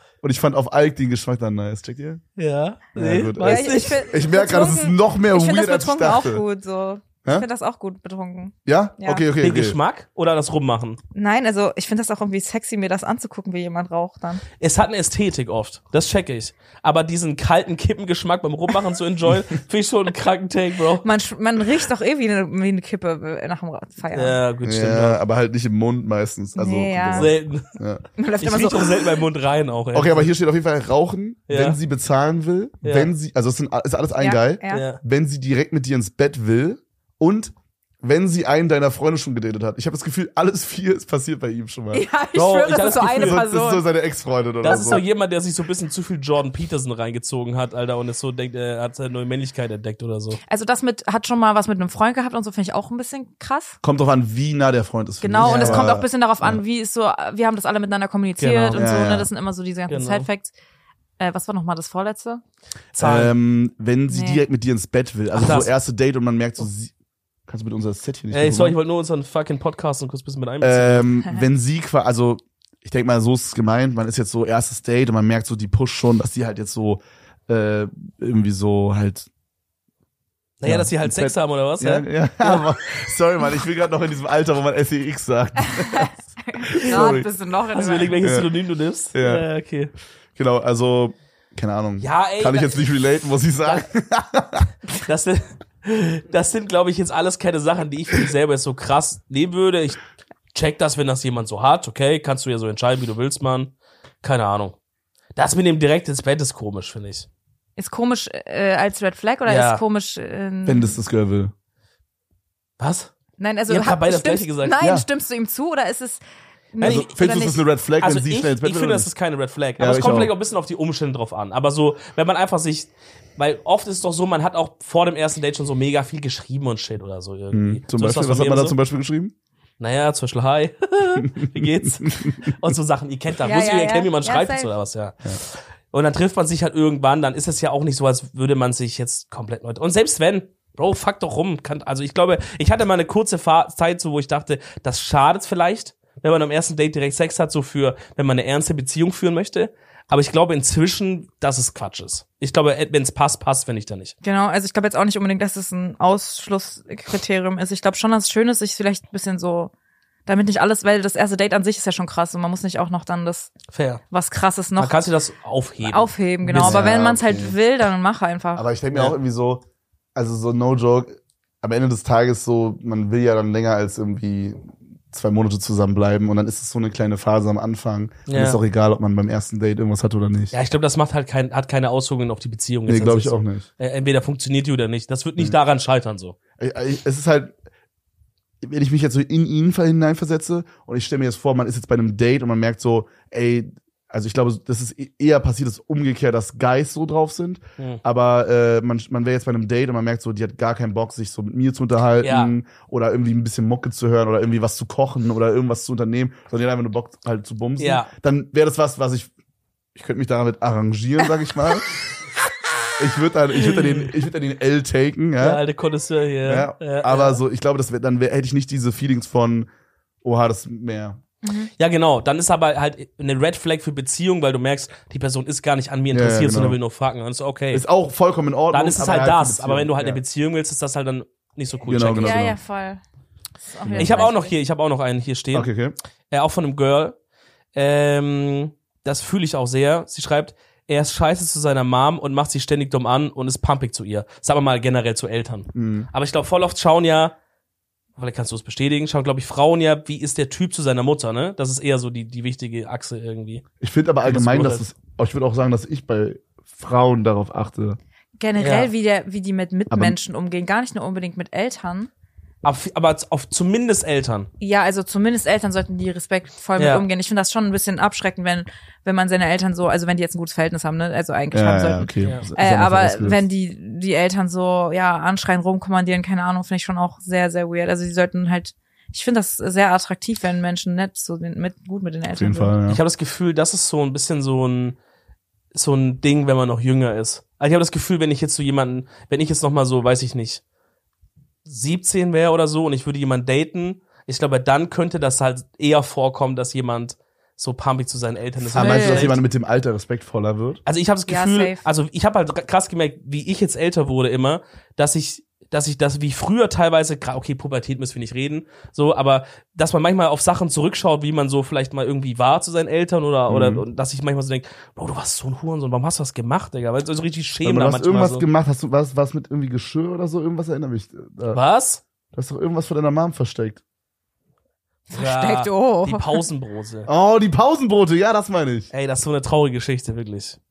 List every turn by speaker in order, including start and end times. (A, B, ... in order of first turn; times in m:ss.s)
0:00.2-0:02.2 A
0:02.4-0:04.1 B
0:02.9-0:06.4 A
0:03.4-0:09.2 C
0:08.6-0:09.8 A
0:09.4-0:11.0 B
0:11.1-0:14.4 C
0:14.6-0:21.1 B
0:21.0-0:24.4 C
0:24.1-0:25.2 B
0:24.6-0:28.0 A
0:26.6-0:27.3 C
0:27.1-0:27.7 B
0:28.2-0:29.2 C
0:28.4-0:30.3 B
0:29.9-0:42.0 A
0:31.5-0:31.8 B
0:32.8-0:33.1 B
0:34.2-0:34.8 C
0:34.7-0:35.0 B
0:41.9-0:43.8 C
0:42.3-0:43.4 B
0:43.0-0:45.0 A
0:44.6-0:50.4 B
0:50.5-0:53.8 C
0:53.8-0:56.6 A
0:55.2-1:00.5 C
0:55.4-0:55.9 B
0:58.4-0:58.8 B
0:58.7-0:59.3 A
0:59.9-1:00.3 B
1:01.2-1:02.4 C
1:02.9-1:03.3 B
1:03.0-1:06.9 A
1:04.1-1:04.4 C
1:05.3-1:05.7 B
1:07.5-1:08.8 A
1:08.3-1:11.2 B
1:10.6-1:19.3 A
1:20.6-1:22.7 B
1:20.6-1:27.3 A
1:25.7-1:28.3 C
1:26.8-1:27.2 B
1:27.7-1:29.9 B
1:28.2-1:28.5 A
1:29.1-1:29.4 A
1:30.4-1:34.7 A
1:32.0-1:32.9 B
1:35.0-1:40.0 B
1:40.5-1:44.8 B
1:45.3-1:47.3 B
1:47.8-1:51.0 C
1:49.4-1:49.8 B
1:50.6-1:51.5 A
1:52.8-1:53.1 B
1:53.4-1:56.2 C
1:53.7-1:54.8 B
1:54.8-1:55.0 A
1:56.7-1:57.6 C
1:56.8-1:57.1 B
1:56.8-1:59.1 A
1:58.0-2:08.8 B
1:59.8-2:00.3 A
2:07.5-2:09.3 A
2:09.8-2:34.1 B
2:11.2-2:12.6 A
2:13.4-2:14.7 C
2:34.2-2:39.7 C
2:40.3-2:43.5 C
2:43.7-2:44.0 B
2:44.1-2:45.0 C
2:44.8-2:46.8 B
2:45.8-2:48.6 C
2:46.5-2:47.6 A
2:48.5-2:49.6 A
2:50.1-3:00.5 A
2:58.3-2:58.6 B
3:00.5-3:06.4 B
3:02.9-3:03.7 A
3:06.6-3:07.5 A
3:08.6-3:29.3 A
3:22.2-3:22.5 B
3:27.8-3:28.1 B
3:30.0-3:31.9 A
3:33.0-3:35.6 A
3:33.6-3:34.1 B
3:35.4-3:37.4 B
3:36.4-3:39.7 A
3:40.2-3:41.2 A
3:41.4-3:41.7 C
3:41.8-3:47.8 B
3:46.1-3:46.8 A
3:47.7-3:50.2 A
3:48.7-3:52.4 B
3:51.9-3:52.6 A
3:52.2-3:53.0 C
3:53.6-3:54.5 C
3:53.8-3:54.3 A
3:54.0-3:55.7 B
3:55.5-3:55.9 A
3:56.3-3:57.2 B
3:57.7-4:07.3 B
4:05.7-4:06.1 A
4:08.2-4:13.6 B
4:13.8-4:18.0 A
4:14.2-4:14.8 B
4:18.4-4:22.1 C
4:18.6-4:18.9 B
4:19.9-4:20.2 A
4:22.6-4:24.5 B
4:24.6-4:42.7 C
4:26.8-4:27.0 B
4:31.5-4:33.4 A
4:42.3-4:43.0 A
4:42.9-4:45.0 B
4:45.7-4:50.6 B
4:51.6-4:59.4 B
4:58.7-5:00.8 A
4:58.7-4:59.3 C
5:00.8-5:18.4 B
5:01.3-5:01.8 C
5:13.5-5:13.8 A
5:17.6-5:21.6 A
5:21.5-5:22.0 B
5:22.3-5:23.8 A
5:25.1-5:26.4 C
5:25.1-5:27.1 B
5:27.1-5:28.9 A
5:28.9-5:30.6 B